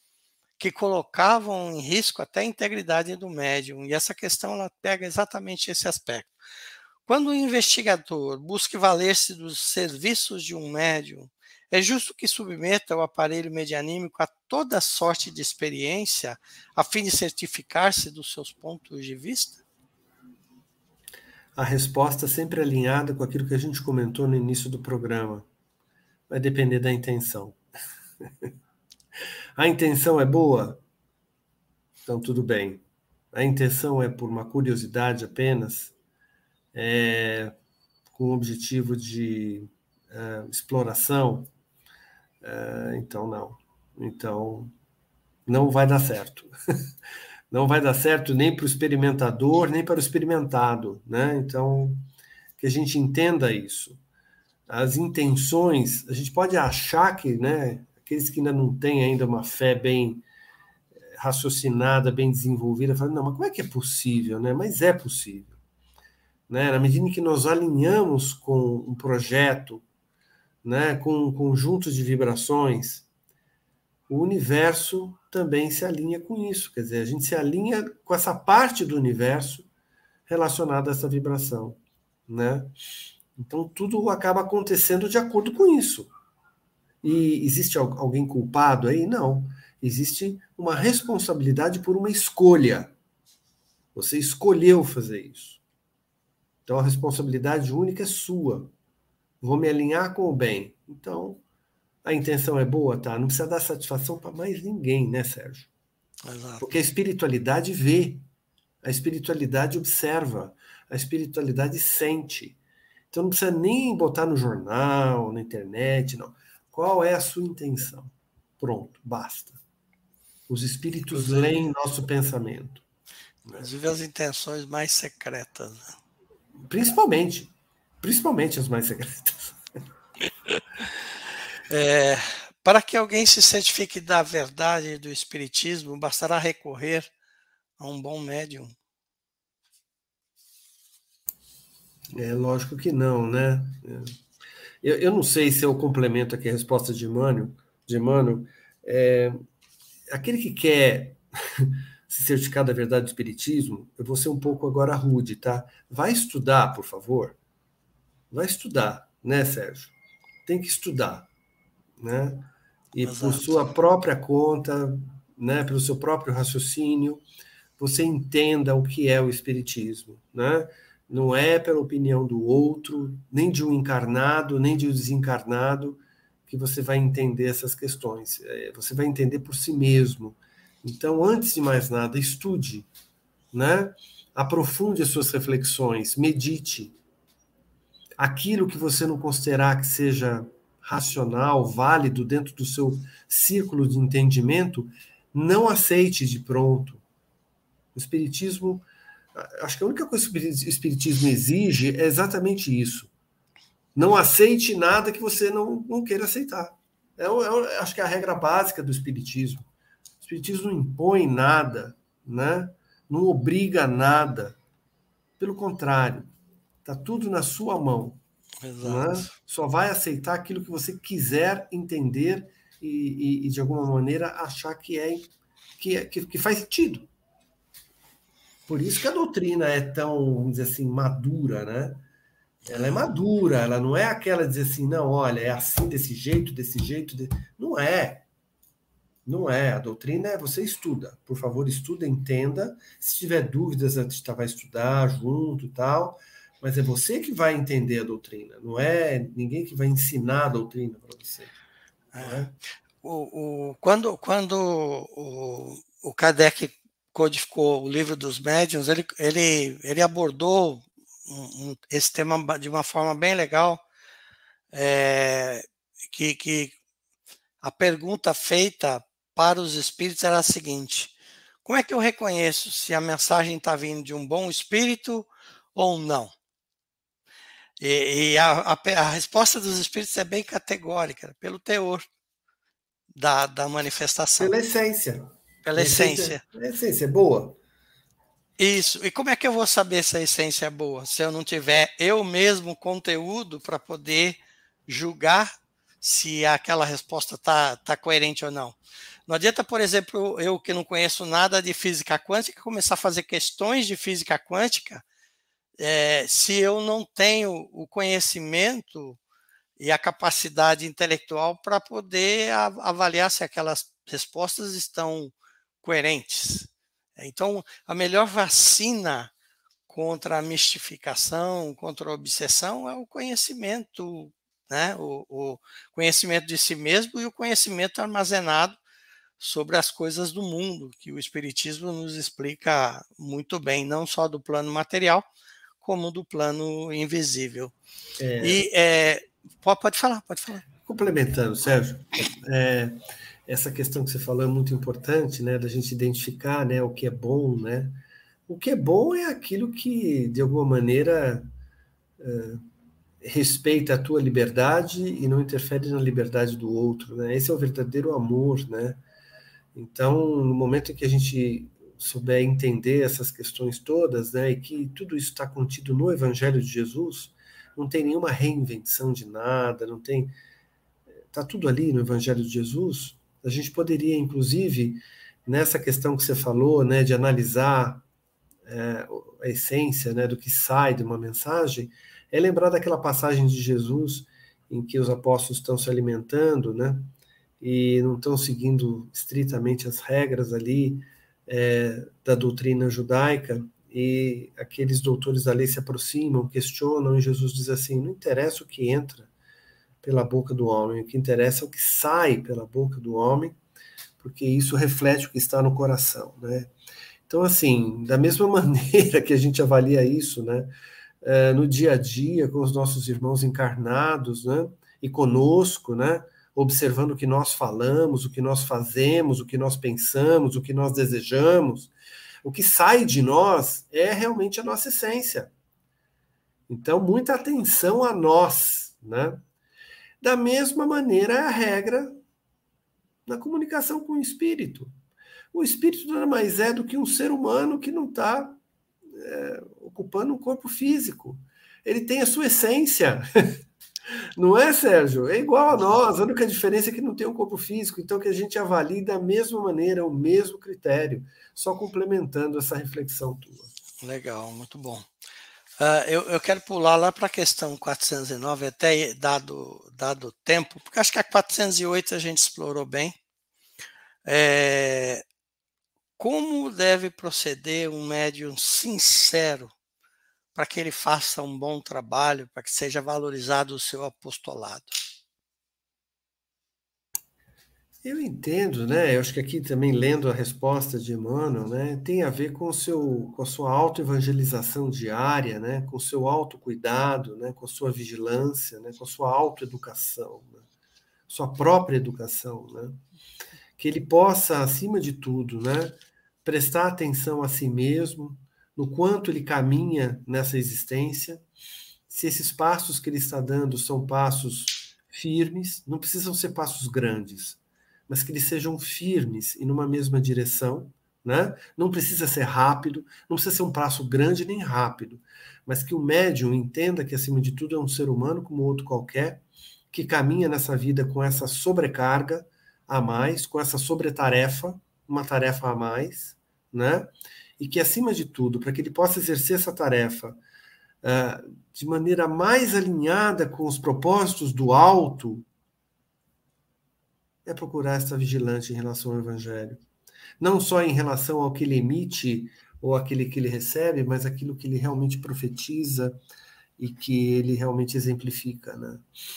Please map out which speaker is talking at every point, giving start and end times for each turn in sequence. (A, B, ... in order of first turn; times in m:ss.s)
0:00.6-0:06.3 A
0:07.0-0:19.6 A
0:21.6-0:25.4 B
0:26.3-0:27.6 B
0:29.6-0:30.8 B
0:32.0-0:35.9 B
0:36.7-0:37.6 B
0:38.1-0:41.5 B
0:42.4-0:44.7 B
0:45.4-0:46.5 B
0:47.5-0:52.0 B
0:52.6-0:54.0 B
0:54.7-1:00.2 B
1:01.2-1:05.6 B
1:06.5-1:09.8 B
1:10.6-1:13.1 B
1:14.1-1:19.7 B
1:20.3-1:22.7 B
1:23.4-1:26.1 B
1:27.0-1:32.9 B
1:33.9-1:35.6 B
1:36.6-1:38.7 B
1:39.4-1:41.4 B
1:42.0-1:45.7 B
1:46.2-1:46.7 A
1:46.6-1:48.2 B
1:48.8-1:52.6 B
1:53.1-1:59.6 B
2:00.5-2:02.8 B
2:01.1-2:01.6 A
2:03.6-2:05.9 A
2:06.6-2:09.6 B
2:11.7-2:17.1 A
2:17.8-2:18.7 A
2:22.1-2:24.1 B
2:24.8-2:29.4 B
2:30.1-2:37.4 B
2:38.3-2:39.9 B
2:40.4-2:41.3 B
2:42.0-2:47.2 B
2:43.0-2:43.7 A
2:47.8-3:02.9 B
3:03.5-3:07.0 B
3:08.2-3:17.0 B
3:17.9-3:23.1 B
3:24.0-3:29.6 B
3:30.2-3:34.6 B
3:35.4-3:36.3 B
3:36.8-3:38.2 B
3:38.6-3:39.3 A
3:38.8-3:47.1 B
3:48.7-3:52.0 B
3:52.6-3:53.1 A
3:52.7-3:58.2 B
3:59.2-4:11.5 B
4:12.1-4:23.8 A
4:12.2-4:12.5 B
4:24.7-4:26.7 A
4:27.6-4:36.3 A
4:37.8-4:42.0 A
4:43.1-4:44.5 A
4:44.4-4:47.6 B
4:45.6-4:46.4 A
4:48.6-4:54.4 A
4:54.9-5:05.0 A
5:05.8-5:09.2 A
5:09.8-5:19.3 A
5:19.9-5:28.8 A
5:29.4-5:35.2 A
5:35.8-5:37.7 A
5:38.2-5:38.6 B
5:38.4-5:40.7 A
5:40.8-5:51.4 B
5:52.2-5:52.6 B
5:53.2-5:59.0 B
5:59.7-6:10.3 B
6:11.3-6:18.0 B
6:18.6-6:39.3 B
6:40.0-6:43.6 B
6:44.2-6:46.7 B
6:47.3-7:01.9 B
7:02.4-7:05.5 B
7:06.7-7:09.4 B
7:10.2-7:12.2 B
7:13.2-7:14.9 B
7:15.5-7:18.6 B
7:19.1-7:23.2 B
7:24.4-7:33.7 B
7:34.0-7:35.1 A
7:35.8-7:43.1 A
7:44.2-7:45.2 A
7:46.2-7:49.7 A
7:50.5-7:54.9 A
7:58.0-8:10.6 B
8:11.3-8:13.0 B
8:13.8-8:21.4 B
8:22.1-8:50.4 B
8:51.0-8:55.4 B
8:57.4-8:59.8 B
9:00.4-9:06.2 B
9:06.8-9:09.0 B